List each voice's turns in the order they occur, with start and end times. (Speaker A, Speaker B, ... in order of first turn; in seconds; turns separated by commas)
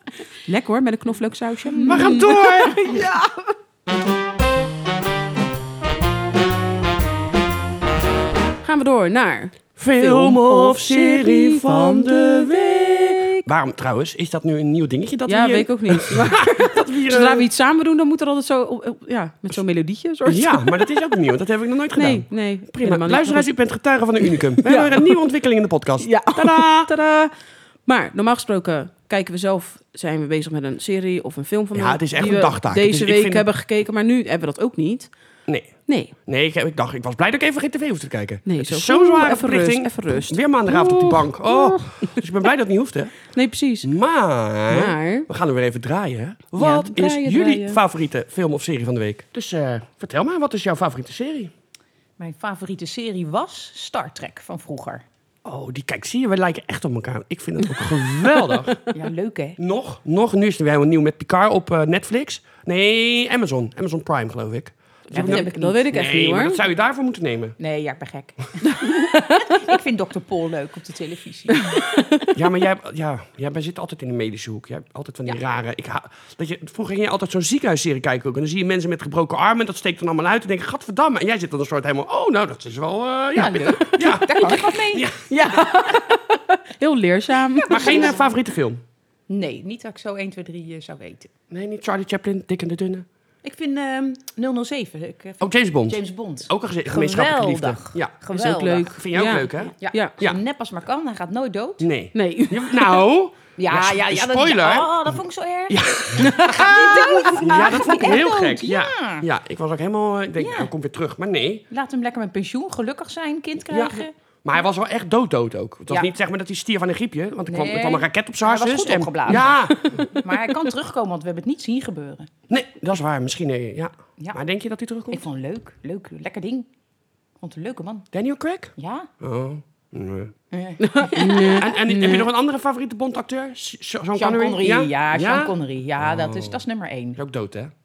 Speaker A: 0.5-3.5, Speaker B: 1.7-2.2, Speaker C: 1.9-3.0, Speaker A: 8.6-13.4, Speaker C: 9.8-17.5, Speaker A: 15.3-20.9, Speaker C: 20.3-26.9, Speaker A: 22.0-23.5, Speaker A: 24.6-25.2, Speaker A: 26.0-27.3, Speaker A: 27.9-35.1, Speaker C: 31.7-33.5, Speaker C: 35.5-43.3, Speaker A: 35.9-36.1, Speaker A: 38.5-42.2, Speaker A: 43.3-43.9, Speaker C: 43.8-51.5, Speaker A: 44.7-45.3, Speaker A: 46.6-47.8, Speaker B: 52.2-55.0, Speaker C: 55.5-58.8, Speaker B: 58.9-59.6, Speaker C: 59.6-67.6, Speaker B: 65.1-66.1, Speaker A: 65.1-66.6, Speaker B: 67.6-71.8, Speaker A: 68.7-69.6, Speaker A: 71.7-72.3, Speaker C: 72.3-85.6, Speaker B: 83.3-85.1, Speaker A: 85.3-88.2, Speaker B: 87.6-88.3, Speaker C: 87.7-88.8, Speaker B: 89.3-91.3, Speaker C: 91.5-93.1, Speaker B: 93.4-99.0, Speaker C: 95.4-98.1, Speaker A: 98.3-100.2, Speaker C: 98.9-100.4, Speaker B: 99.8-101.9, Speaker C: 101.8-105.2, Speaker A: 102.1-103.0, Speaker B: 103.6-109.3, Speaker C: 105.7-111.6, Speaker A: 106.2-107.7, Speaker B: 110.4-110.7, Speaker B: 111.7-114.1, Speaker C: 113.7-120.1, Speaker B: 117.5-122.3, Speaker C: 122.5-125.2, Speaker B: 125.1-126.7, Speaker B: 127.4-128.1, Speaker C: 128.1-130.3, Speaker B: 128.8-129.1, Speaker B: 130.5-131.5, Speaker A: 130.8-132.3, Speaker C: 131.4-136.6, Speaker B: 134.2-137.2, Speaker C: 137.2-137.7